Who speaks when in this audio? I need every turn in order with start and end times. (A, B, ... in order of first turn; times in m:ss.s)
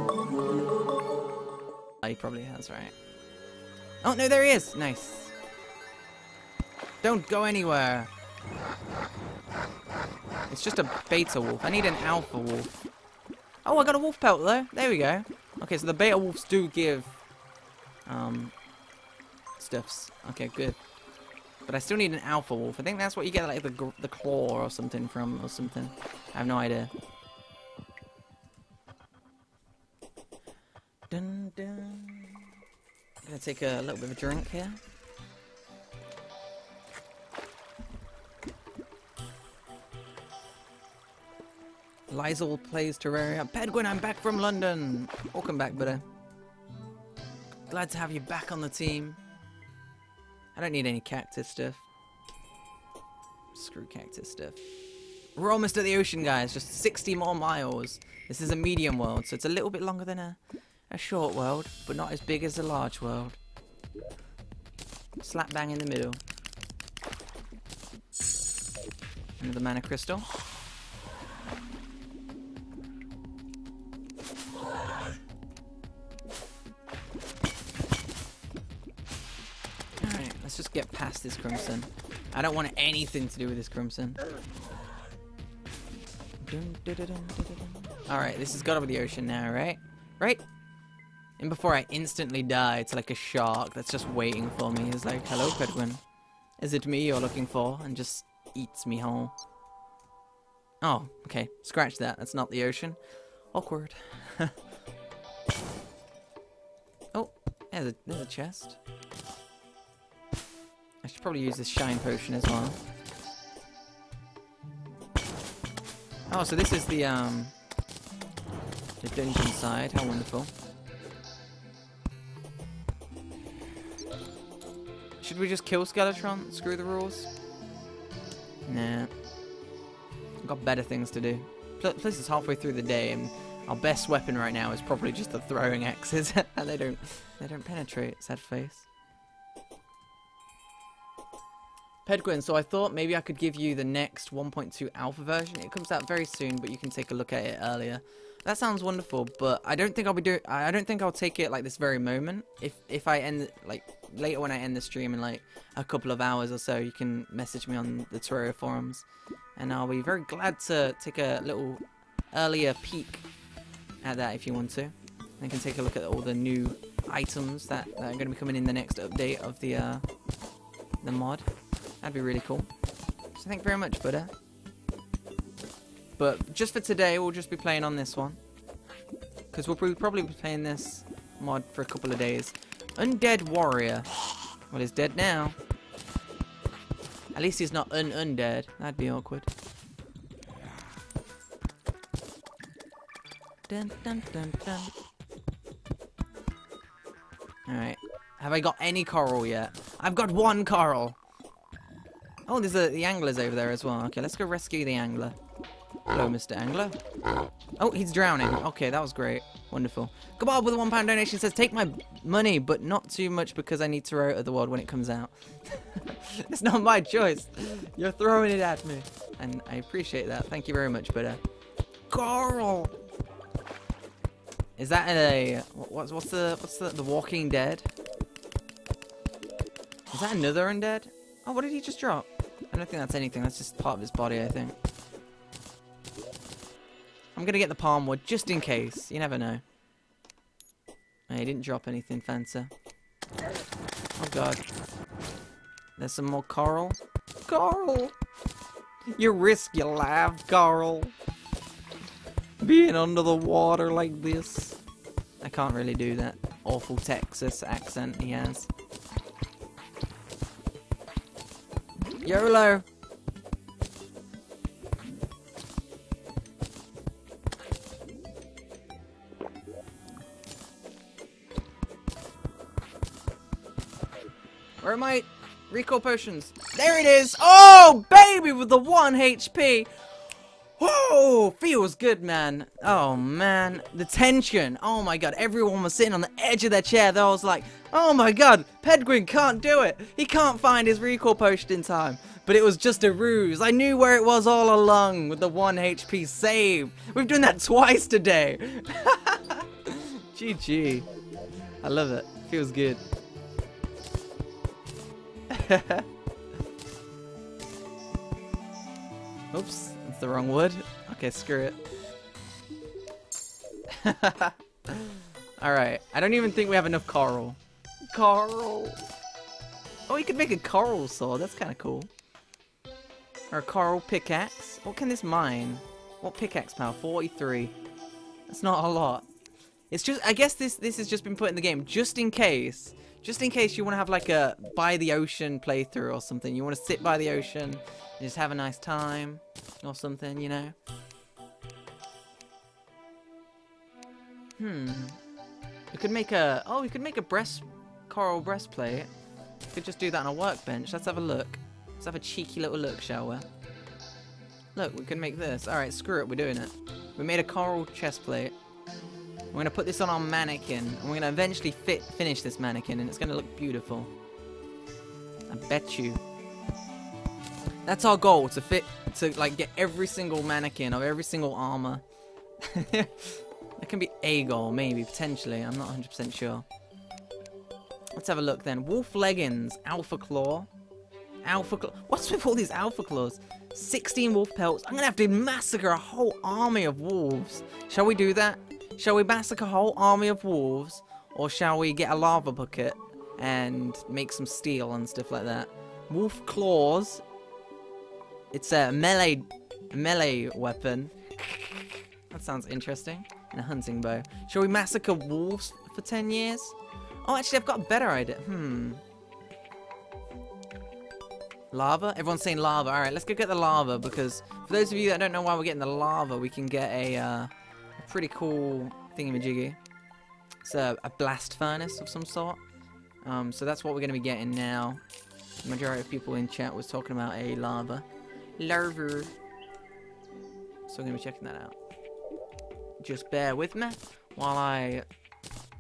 0:02.0-0:02.9 A
0:04.0-0:05.3 A
0:07.0-0:08.1 A
0:10.5-0:12.7 A
0:13.6-0:17.2 A
0:18.1-0:18.5 A
0:19.6-0:20.8 A
0:21.7-0:26.9 A
0:31.1-0:32.5 A
0:33.2-0:34.8 A
0:42.1-0:46.0 A
0:47.7-0:49.2 A
0:50.6-0:51.8 A
0:53.5-0:54.6 A
0:55.4-1:00.4 A
1:00.9-1:03.4 A
1:05.2-1:06.2 A
1:09.4-1:10.3 A
1:20.0-1:24.2 A
1:26.4-1:30.4 A
1:31.4-1:36.0 A
1:36.6-1:39.4 A
1:40.8-1:43.0 A
1:43.5-1:44.6 A
1:47.1-1:48.8 A
1:51.0-1:52.8 A
1:56.3-1:57.6 A
1:59.0-2:00.5 A
2:05.2-2:07.3 A
2:08.7-2:09.1 A
2:10.4-2:18.9 A
2:22.0-2:43.3 A
2:44.0-2:50.0 A
2:51.0-2:51.5 A
2:52.0-2:52.7 A
2:53.4-2:54.3 A
2:56.2-2:58.4 A
2:59.5-3:04.1 A
3:04.7-3:05.6 A
3:07.3-3:09.5 A
3:13.7-3:14.9 A
3:17.7-3:21.2 A
3:22.5-3:25.4 A
3:26.1-3:27.0 A
3:27.8-3:41.4 A
3:42.1-3:42.9 A
3:44.8-3:47.9 A
3:50.1-3:54.8 A
3:57.4-3:59.6 A
4:01.3-4:02.7 A
4:04.2-4:04.6 A
4:06.0-4:08.1 A
4:09.1-4:11.1 A
4:12.6-4:14.8 A
4:15.4-4:18.7 A
4:22.2-4:22.8 A
4:34.8-4:39.9 A
4:40.8-5:01.1 A
5:01.8-5:03.0 A
5:05.5-5:06.1 A
5:09.5-5:11.8 A
5:13.9-5:19.0 A
5:20.1-5:22.1 A
5:23.5-5:27.8 A
5:28.5-5:29.3 A
5:29.9-5:40.8 A
5:44.6-5:45.2 A
5:45.9-5:49.1 A
5:49.7-5:53.5 A
5:54.8-5:58.6 A
5:59.5-6:04.1 A
6:05.5-6:06.2 A
6:07.8-6:12.0 A
6:12.6-6:16.7 A
6:18.1-6:20.7 A
6:21.4-6:37.2 A
6:38.5-6:49.0 A
6:51.7-6:59.8 A
7:00.6-7:02.6 A
7:03.2-7:05.0 A
7:05.6-7:08.1 A
7:08.6-7:09.4 A
7:10.9-7:11.8 A
7:13.0-7:15.1 A